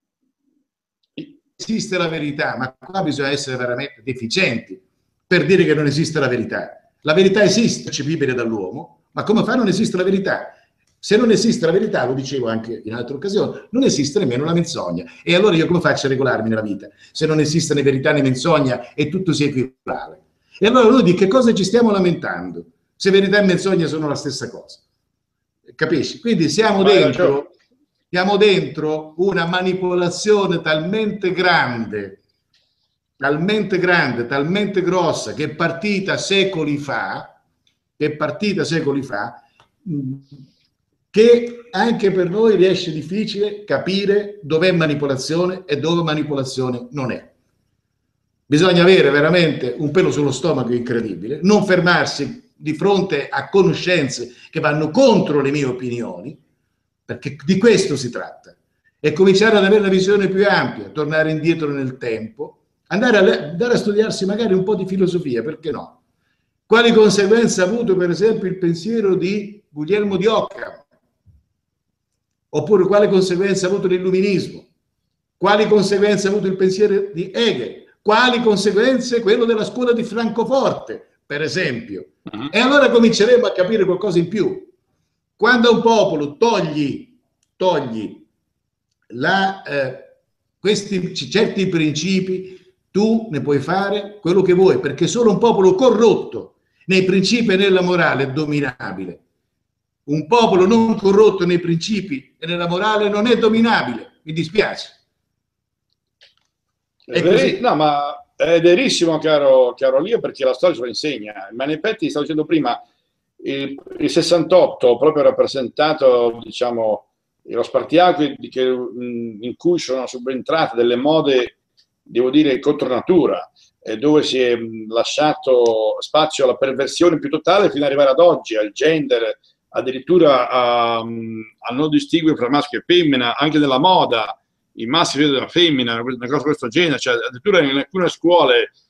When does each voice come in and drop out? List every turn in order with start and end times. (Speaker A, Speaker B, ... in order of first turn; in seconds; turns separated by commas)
Speaker A: 1.6-24.8, Speaker A: 25.7-27.5, Speaker B: 26.8-27.4, Speaker A: 28.1-32.2, Speaker A: 33.2-37.4, Speaker A: 38.0-40.4, Speaker A: 41.1-47.3, Speaker A: 48.5-56.4, Speaker A: 57.1-66.0, Speaker A: 66.7-70.8, Speaker A: 72.5-74.7, Speaker A: 75.4-84.7, Speaker A: 85.4-88.3, Speaker A: 89.1-99.2, Speaker A: 100.1-105.0, Speaker B: 107.1-112.8, Speaker A: 107.1-107.6, Speaker B: 113.4-121.5, Speaker B: 122.1-138.7